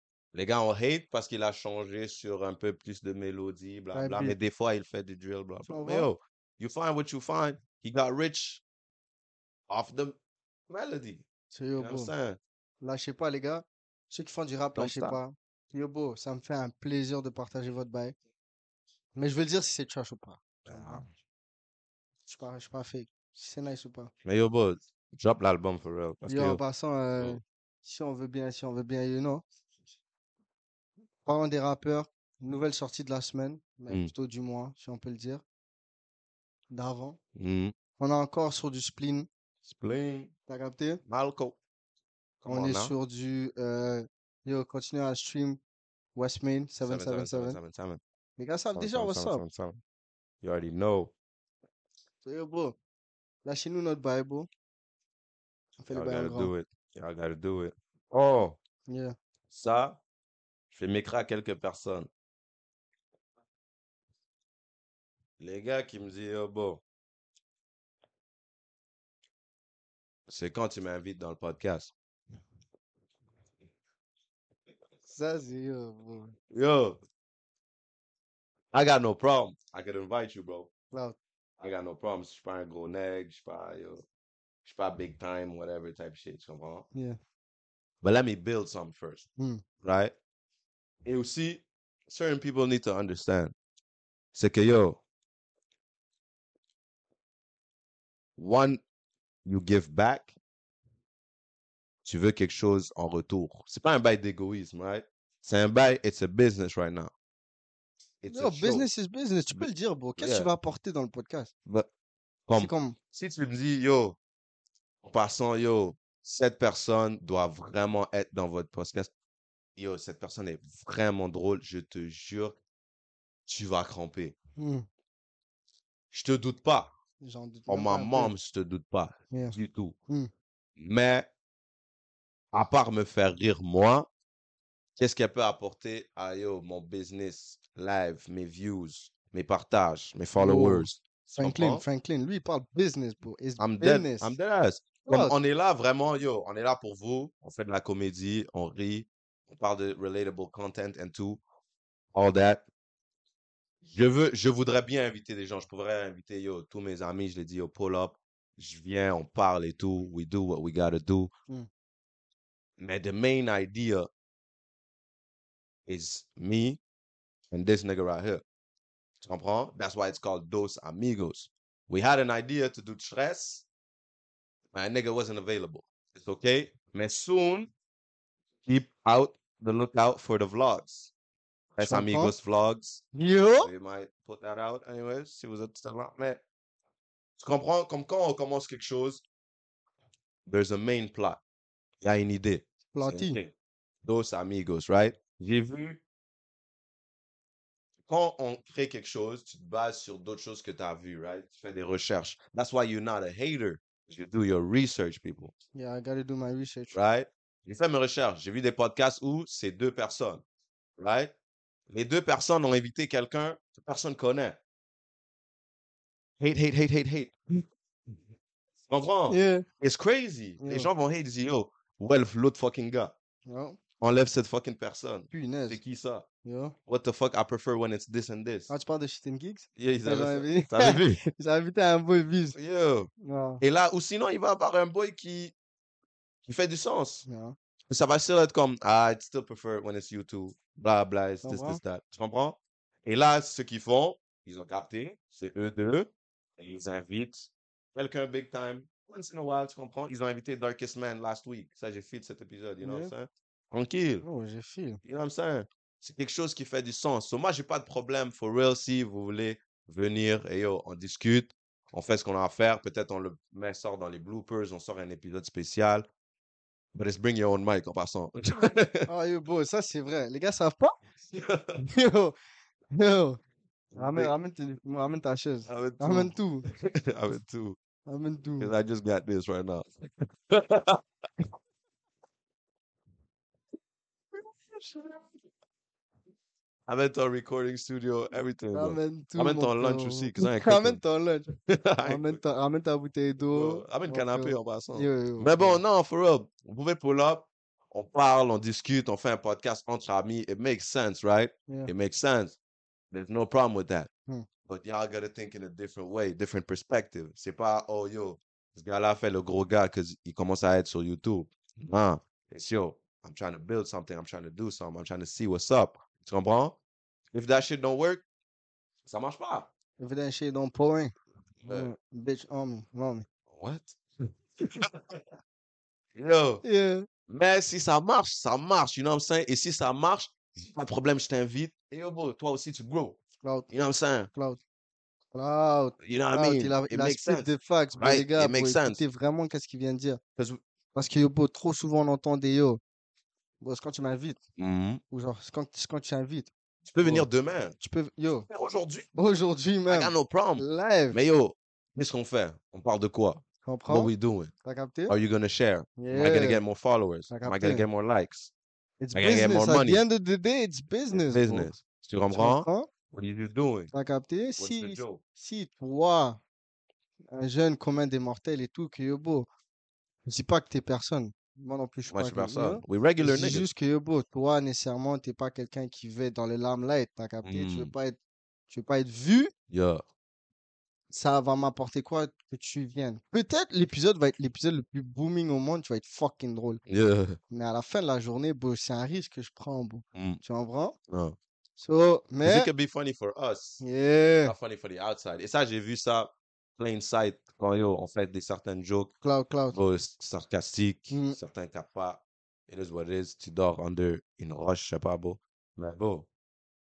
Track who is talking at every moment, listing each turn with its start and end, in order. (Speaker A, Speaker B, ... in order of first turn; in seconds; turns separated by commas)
Speaker A: 0.3-8.6, Speaker B: 3.9-4.3, Speaker B: 5.7-6.1, Speaker A: 9.7-10.2, Speaker A: 10.7-11.2, Speaker B: 11.5-12.1, Speaker A: 11.8-12.4, Speaker B: 12.8-18.1, Speaker A: 14.8-15.2, Speaker B: 19.1-21.0, Speaker A: 20.6-21.1, Speaker B: 22.2-24.1, Speaker A: 24.2-26.6, Speaker B: 26.2-29.4, Speaker B: 31.2-35.4, Speaker B: 36.7-37.2, Speaker A: 37.4-37.7, Speaker B: 38.0-39.3, Speaker A: 39.6-40.3, Speaker B: 40.5-41.0, Speaker A: 41.1-41.6, Speaker A: 42.4-42.9, Speaker B: 42.5-45.6, Speaker B: 46.1-47.6, Speaker A: 46.8-48.0, Speaker B: 48.4-49.4, Speaker A: 48.7-49.8, Speaker A: 50.4-51.1, Speaker B: 52.2-52.8, Speaker B: 53.4-54.5, Speaker B: 55.8-56.5, Speaker A: 55.9-58.6, Speaker B: 58.9-59.1, Speaker A: 59.5-60.0, Speaker A: 60.7-62.1, Speaker A: 65.4-66.8, Speaker A: 70.3-71.9, Speaker B: 75.1-76.3, Speaker A: 76.5-77.0, Speaker A: 78.7-80.7, Speaker B: 80.9-81.2, Speaker A: 81.6-84.0, Speaker A: 84.6-86.8, Speaker A: 88.0-89.3, Speaker B: 89.4-89.6, Speaker A: 89.8-90.1, Speaker A: 91.0-93.5, Speaker A: 94.3-95.0, Speaker A: 98.4-98.8, Speaker A: 99.5-100.3, Speaker A: 102.0-107.1, Speaker A: 108.2-108.9, Speaker B: 108.3-111.5, Speaker A: 109.5-110.5, Speaker A: 112.5-114.2, Speaker B: 112.5-113.0, Speaker A: 115.0-119.1, Speaker A: 119.8-122.6, Speaker A: 123.5-124.3, Speaker B: 124.5-124.8, Speaker A: 126.1-126.9, Speaker B: 127.2-128.3, Speaker A: 127.7-129.9, Speaker B: 129.3-129.6, Speaker A: 130.8-131.3, Speaker A: 132.5-134.1, Speaker A: 135.0-141.8, Speaker B: 140.4-144.3, Speaker A: 143.6-151.4, Speaker B: 145.1-145.3, Speaker A: 152.1-152.6, Speaker A: 153.8-161.3, Speaker A: 162.8-164.1, Speaker A: 165.9-166.8, Speaker A: 167.5-168.4, Speaker A: 169.2-173.6, Speaker A: 174.7-177.7, Speaker A: 178.6-181.1, Speaker A: 181.7-183.0, Speaker B: 181.8-182.3, Speaker B: 183.1-183.7, Speaker A: 183.6-186.4, Speaker A: 187.4-189.2, Speaker A: 190.5-191.4, Speaker A: 192.0-193.5, Speaker B: 192.9-193.4, Speaker A: 194.0-196.0, Speaker A: 198.1-205.5, Speaker B: 205.7-206.9, Speaker A: 206.9-210.4, Speaker A: 211.0-211.3, Speaker A: 211.9-214.6, Speaker A: 216.4-217.5, Speaker A: 218.9-223.1, Speaker B: 219.3-219.7, Speaker B: 220.6-220.9, Speaker B: 223.4-223.8, Speaker A: 224.0-226.2, Speaker B: 225.3-225.8, Speaker B: 226.4-226.7, Speaker A: 226.9-228.7, Speaker B: 228.7-232.6, Speaker A: 229.8-231.2, Speaker A: 232.5-233.1, Speaker B: 233.2-233.6, Speaker A: 233.6-235.5, Speaker A: 236.4-237.2, Speaker B: 237.2-237.5, Speaker A: 237.9-254.2, Speaker B: 241.4-241.8, Speaker B: 252.8-253.1, Speaker B: 254.2-255.0, Speaker A: 255.0-266.1, Speaker A: 266.9-269.1, Speaker B: 269.1-271.0, Speaker A: 271.3-271.8, Speaker B: 271.8-272.4, Speaker B: 272.9-273.4, Speaker A: 273.9-274.3, Speaker B: 273.9-276.7, Speaker A: 275.7-277.8, Speaker B: 278.1-278.7, Speaker A: 278.6-281.0, Speaker A: 286.9-292.4, Speaker B: 288.7-291.5, Speaker B: 292.0-295.8, Speaker A: 293.4-302.6, Speaker A: 303.1-304.1, Speaker A: 304.6-316.8, Speaker A: 317.3-318.2, Speaker A: 319.1-319.7, Speaker B: 320.0-321.1, Speaker A: 321.6-321.9, Speaker B: 321.7-323.2, Speaker A: 323.5-325.2, Speaker A: 326.1-326.6, Speaker B: 326.6-327.1, Speaker A: 327.3-333.2, Speaker B: 333.4-333.7, Speaker A: 333.7-334.3, Speaker B: 334.3-334.6, Speaker B: 335.3-340.2, Speaker A: 336.0-339.0, Speaker B: 340.9-342.8, Speaker B: 343.6-344.4, Speaker A: 344.6-345.0, Speaker B: 345.1-346.5, Speaker A: 346.9-347.8, Speaker B: 347.0-348.5, Speaker A: 348.5-349.1, Speaker B: 349.1-351.2, Speaker A: 349.9-354.5, Speaker B: 353.6-354.1, Speaker B: 354.6-355.1, Speaker A: 355.1-358.5, Speaker B: 356.0-356.6, Speaker B: 357.3-357.9, Speaker B: 359.0-361.7, Speaker A: 359.1-360.0, Speaker A: 361.1-363.9, Speaker B: 362.3-362.9, Speaker B: 363.9-366.4, Speaker A: 364.6-365.2, Speaker B: 367.3-369.5, Speaker B: 370.2-378.2, Speaker A: 372.1-373.7, Speaker A: 377.4-377.9, Speaker B: 378.7-379.5, Speaker A: 379.7-380.0, Speaker B: 381.1-386.8, Speaker A: 386.9-387.4, Speaker B: 387.5-390.9, Speaker A: 390.1-390.4, Speaker A: 391.1-391.4, Speaker B: 391.8-392.7, Speaker A: 392.4-393.8, Speaker B: 393.8-394.5, Speaker A: 394.4-399.1, Speaker B: 399.2-399.8, Speaker A: 399.7-406.3, Speaker B: 401.1-401.4